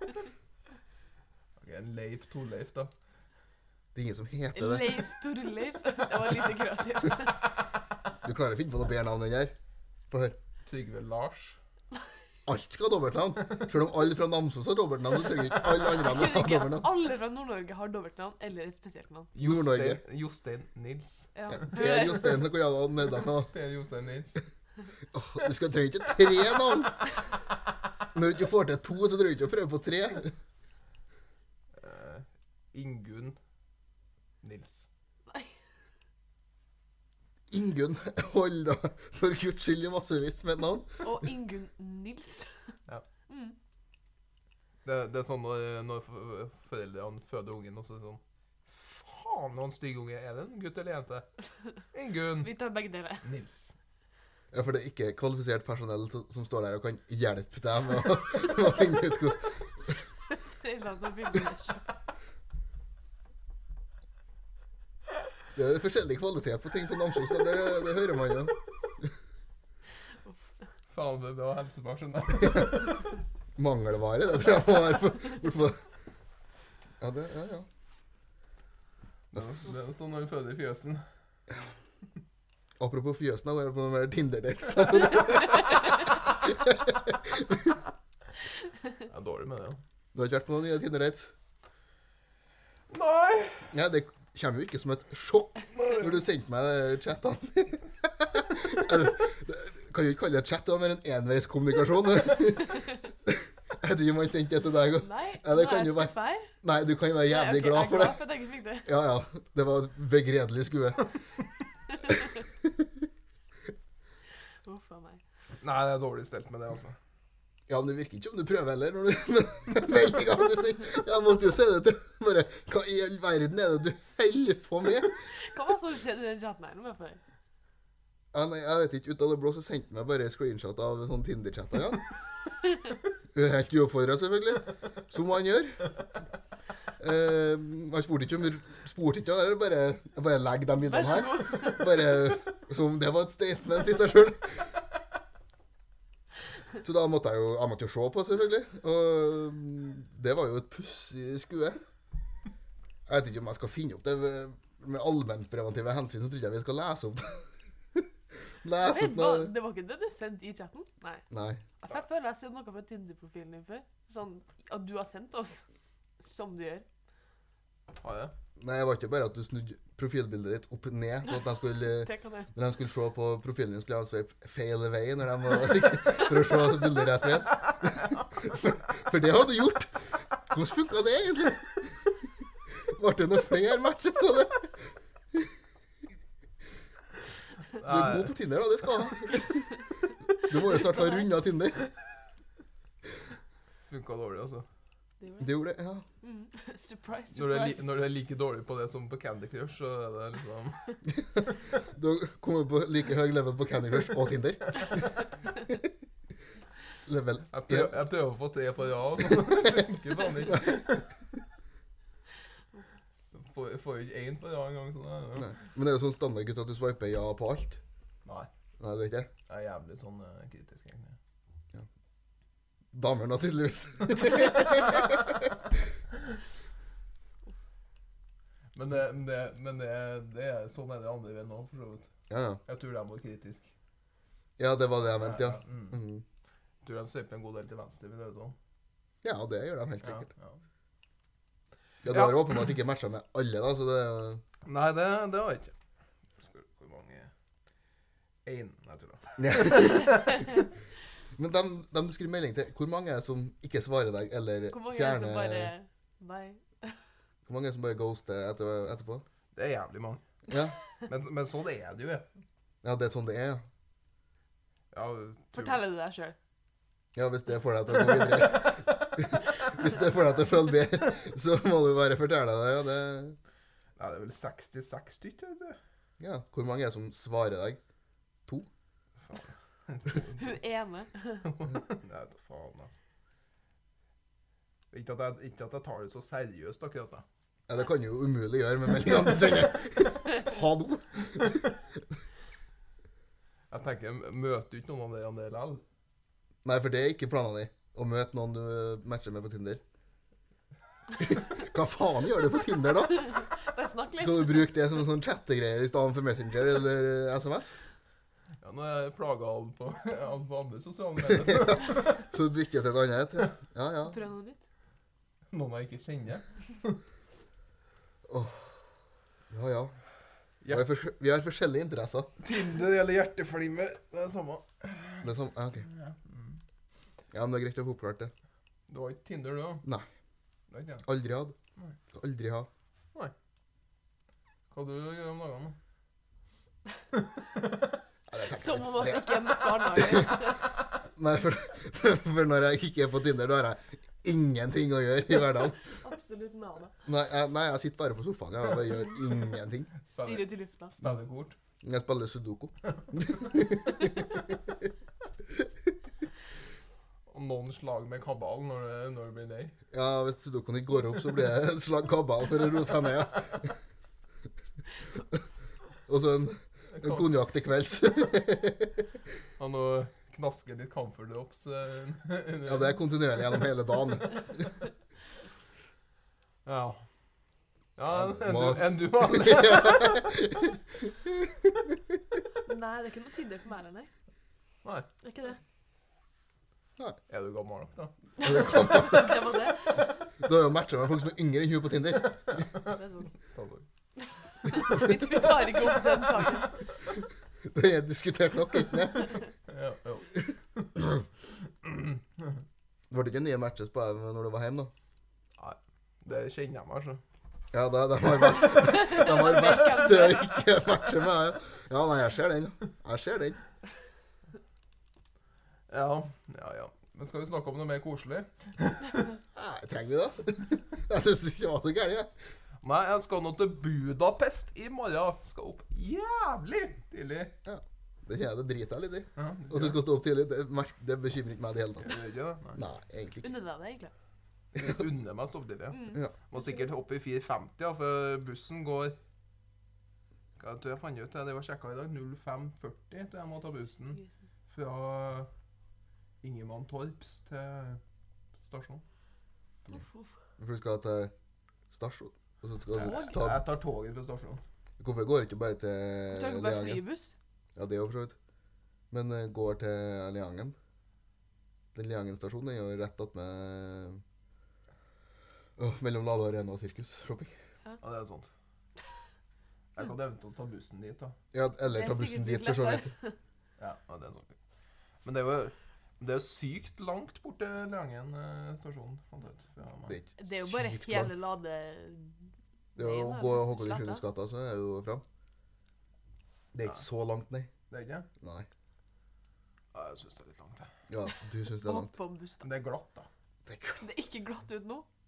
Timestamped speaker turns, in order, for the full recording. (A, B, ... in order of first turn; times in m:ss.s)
0:01.6-0:02.9 A
0:04.0-0:04.9 B
0:04.6-0:07.5 C
0:08.2-0:09.5 B
0:10.1-0:10.4 B
0:10.6-0:11.6 A
0:12.5-0:16.9 B
0:15.9-0:19.3 C
0:19.4-0:21.6 A
0:19.4-0:20.0 B
0:21.4-0:22.4 C
0:21.6-0:23.5 B
0:23.5-0:24.4 A
0:25.1-0:27.0 B
0:28.1-0:30.3 B
0:31.8-0:33.4 A
0:34.4-0:34.8 A
0:35.3-0:35.6 C
0:37.5-0:41.0 B
0:41.0-0:42.5 C
0:43.3-0:43.6 C
0:44.8-0:51.3 A
0:51.9-0:52.5 A
0:52.4-0:53.3 C
0:53.2-0:53.7 A
0:54.5-1:00.0 B
1:00.3-1:01.9 C
1:05.6-1:08.5 B
1:10.9-1:13.2 A
1:13.6-1:15.8 B
1:17.0-1:17.7 B
1:19.3-1:21.1 A
1:22.8-1:27.8 B
1:29.0-1:29.8 A
1:30.1-1:31.3 B
1:32.9-1:33.7 A
1:33.7-1:48.2 B
1:35.8-1:36.1 A
1:44.9-1:46.5 C
1:47.3-1:48.9 C
1:48.8-1:51.1 B
1:52.1-1:52.9 B
1:54.6-1:55.2 C
1:55.6-1:57.0 A
1:57.7-2:05.1 B
2:05.3-2:07.2 C
2:08.3-2:12.0 B
2:13.3-2:15.8 B
2:17.0-2:24.7 B
2:20.8-2:22.1 C
2:26.8-2:31.8 B
2:33.1-2:38.1 B
2:38.6-2:39.5 B
2:38.8-2:41.2 C
2:41.3-2:41.6 B
2:41.8-2:45.6 C
2:46.2-2:46.9 C
2:48.0-2:48.3 A
2:48.6-3:02.0 B
2:51.9-2:52.5 C
3:02.9-3:05.5 B
3:07.8-3:08.3 A
3:07.8-3:09.7 B
3:10.4-3:11.9 B
3:10.8-3:11.2 C
3:13.9-3:14.6 A
3:15.2-3:15.5 C
3:15.4-3:16.0 B
3:16.2-3:17.9 C
3:17.3-3:21.0 A
3:21.3-3:25.1 B
3:27.1-3:28.0 B
3:27.5-3:31.1 A
3:29.5-3:29.8 B
3:33.3-3:35.5 A
3:35.4-3:37.8 B
3:38.8-3:39.3 B
3:39.5-3:41.2 A
3:42.9-3:45.4 B
3:48.7-3:52.1 A
3:52.3-3:52.6 B
3:52.6-3:53.7 A
3:54.6-3:56.2 B
3:55.1-3:56.0 A
3:56.8-3:58.6 A
3:59.2-4:00.3 B
4:00.0-4:00.6 A
4:02.0-4:04.4 B
4:02.1-4:02.6 A
4:04.6-4:05.7 A
4:06.4-4:07.3 A
4:08.4-4:10.6 A
4:09.4-4:10.5 B
4:11.4-4:15.7 B
4:14.7-4:17.0 C
4:17.5-4:19.2 B
4:19.6-4:20.2 A
4:20.5-4:20.8 B
4:21.0-4:22.3 A
4:22.8-4:23.6 B
4:24.9-4:25.8 A
4:25.5-4:26.4 C
4:27.1-4:33.4 B
4:28.6-4:28.9 A
4:34.0-4:35.8 A
4:36.2-4:37.8 B
4:39.2-4:40.6 A
4:40.4-4:41.5 C
4:41.4-4:43.0 A
4:44.9-4:47.2 A
4:47.7-4:51.7 B
4:53.7-4:55.8 A
4:56.6-4:59.8 B
5:01.2-5:03.4 B
5:03.1-5:04.7 C
5:04.2-5:07.8 B
5:08.6-5:12.3 A
5:11.4-5:14.2 B
5:14.1-5:14.6 C
5:15.5-5:17.0 A
5:18.3-5:18.8 B
5:19.5-5:20.0 B
5:20.7-5:22.3 B
5:22.4-5:26.6 A
5:25.2-5:25.9 B
5:27.3-5:28.3 B
5:28.9-5:29.8 A
5:30.7-5:31.0 A
5:31.0-5:31.6 B
5:32.1-5:32.7 B
5:34.7-5:35.8 A
5:37.1-5:37.9 A
5:38.3-5:39.4 B
5:38.5-5:40.6 C
5:40.0-5:40.3 B
5:41.2-5:45.8 B
5:45.9-5:47.0 C
5:47.1-5:49.9 B
5:50.1-5:51.6 A
5:50.1-5:51.0 C
5:51.8-5:54.5 B
5:57.3-5:59.8 A
5:59.9-6:03.7 B
6:06.1-6:09.0 B
6:06.9-6:07.3 A
6:09.6-6:13.0 A
6:12.6-6:14.7 B
6:16.6-6:17.0 A
6:18.0-6:20.3 A
6:18.1-6:22.0 B
6:22.6-6:24.1 C
6:25.2-6:25.6 C
6:27.3-6:28.1 A
6:28.4-6:30.1 C
6:28.4-6:29.7 B
6:30.4-6:32.7 B
6:32.5-6:33.0 A
6:32.9-6:33.3 C
6:33.5-6:33.9 A
6:34.2-6:36.8 C
6:37.6-6:39.4 B
6:39.7-6:40.9 A
6:41.8-6:42.5 A
6:43.1-6:44.9 B
6:45.6-6:47.2 A
6:47.7-6:53.6 B
6:48.7-6:50.6 C
6:55.9-6:59.3 A
6:59.6-7:02.3 B
7:02.8-7:07.6 A
7:07.6-7:12.1 B
7:09.4-7:10.0 A
7:12.0-7:12.8 A
7:12.8-7:13.5 B
7:13.4-7:14.1 C
7:14.8-7:19.2 A
7:15.9-7:16.6 C
7:20.6-7:24.2 A
7:24.7-7:25.5 A
7:26.4-7:28.0 A
7:28.6-7:29.0 A
7:29.9-7:30.3 C
7:30.6-7:31.3 B
7:31.9-7:33.6 B
7:33.0-7:34.6 A
7:33.0-7:33.4 C
7:35.0-7:37.0 B
7:36.3-7:37.4 C
7:37.8-7:38.4 B
7:39.1-7:40.8 B
7:41.9-7:44.2 B
7:45.8-7:47.6 B
7:48.0-7:48.5 A
7:50.0-7:51.4 A
7:51.5-7:53.1 B
7:51.9-7:53.4 C
7:53.8-7:54.6 A
7:55.2-8:00.2 A
8:00.1-8:01.3 B
8:00.4-8:02.4 C
8:03.0-8:04.2 C
8:03.0-8:05.2 B
8:06.7-8:07.7 B
8:07.9-8:08.3 A
8:08.4-8:08.7 B
8:09.9-8:10.9 A
8:11.1-8:12.1 B
8:11.8-8:12.7 C
8:12.6-8:13.3 A
8:13.6-8:14.0 B
8:14.0-8:15.1 C